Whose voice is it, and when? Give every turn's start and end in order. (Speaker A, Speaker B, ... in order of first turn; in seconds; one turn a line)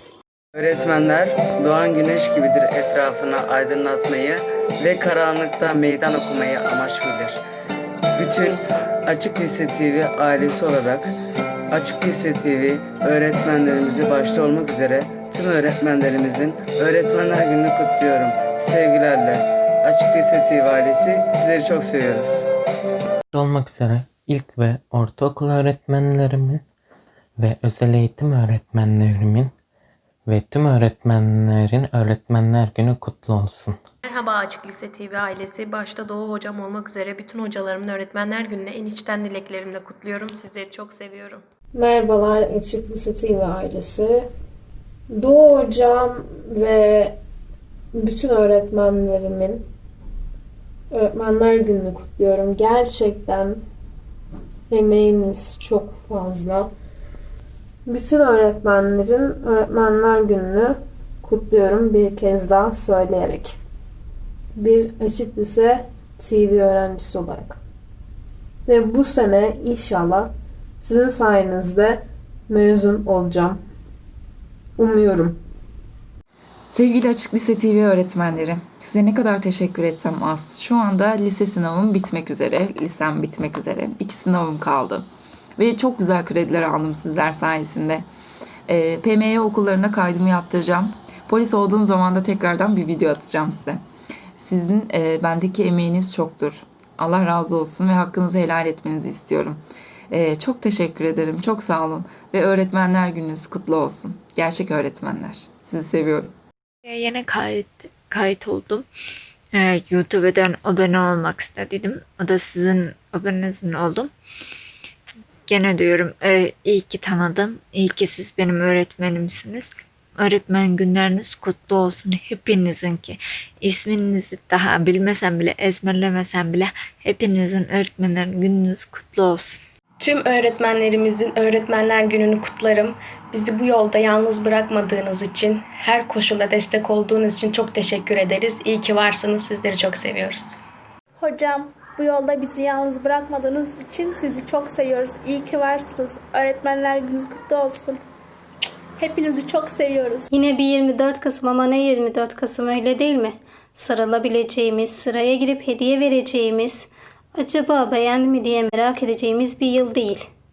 Speaker A: 0.5-7.4
Speaker A: 8.2-11.1
Speaker A: 11.7-22.4
Speaker B: 23.3-26.6
Speaker B: 27.4-29.5
Speaker B: 30.3-33.8
Speaker C: 34.0-41.4
Speaker D: 41.7-44.3
Speaker D: 45.1-47.1
Speaker D: 47.9-49.6
Speaker D: 50.9-53.6
Speaker D: 54.7-56.7
Speaker D: 57.9-63.6
Speaker D: 64.5-67.6
Speaker D: 68.7-73.6
Speaker D: 74.8-75.4
Speaker E: 76.7-85.0
Speaker E: 85.6-88.0
Speaker E: 88.7-93.8
Speaker E: 94.4-99.6
Speaker E: 100.1-106.2
Speaker F: 106.8-108.9
Speaker F: 109.5-114.1
Speaker F: 115.5-129.6
Speaker G: 130.0-140.6
Speaker H: 141.2-148.0
Speaker H: 149.0-150.2
Speaker I: 150.3-160.3